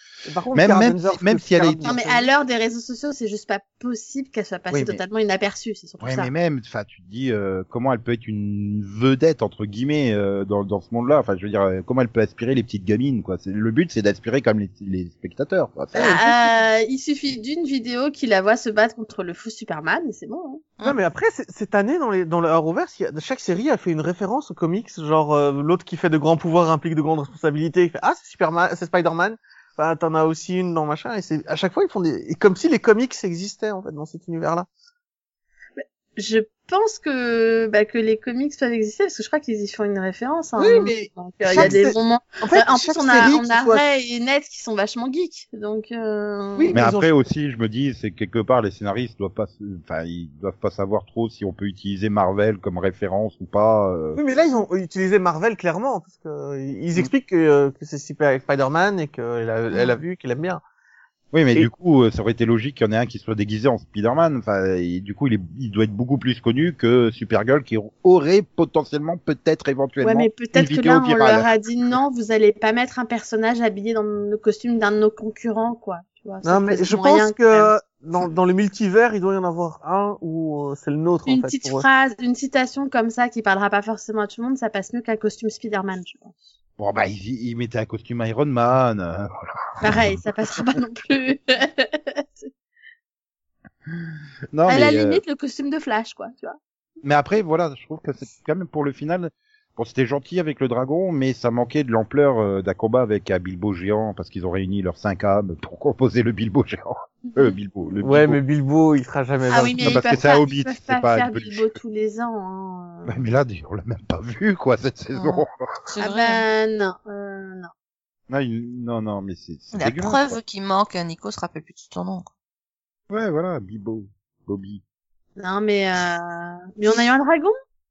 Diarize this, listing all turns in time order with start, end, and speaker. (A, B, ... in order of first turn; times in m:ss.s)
0:00.2-0:02.3 A
0:00.5-0:02.0 B
0:01.8-0:06.3 C
0:04.7-0:05.0 A
0:06.0-0:16.3 B
0:16.0-0:20.6 C
0:20.8-0:34.7 A
0:35.8-0:46.8 C
0:40.6-0:43.8 A
0:41.5-0:41.8 B
0:46.6-0:47.1 A
0:46.7-0:54.2 B
0:54.2-1:00.6 A
1:01.3-1:11.5 B
1:10.0-1:17.7 C
1:16.4-1:21.8 A
1:21.2-1:26.4 C
1:26.8-1:30.0 B
1:29.8-1:32.5 C
1:34.5-1:35.2 B
1:34.6-1:36.6 C
1:37.0-1:48.4 B
1:47.2-1:47.5 C
1:48.0-1:50.0 A
1:49.5-1:53.1 C
1:49.8-1:51.7 B
1:53.1-1:55.5 B
1:55.1-1:56.4 D
1:56.0-1:57.7 C
1:58.3-2:00.3 B
1:59.7-2:02.3 D
2:03.1-2:04.8 B
2:05.4-2:07.5 C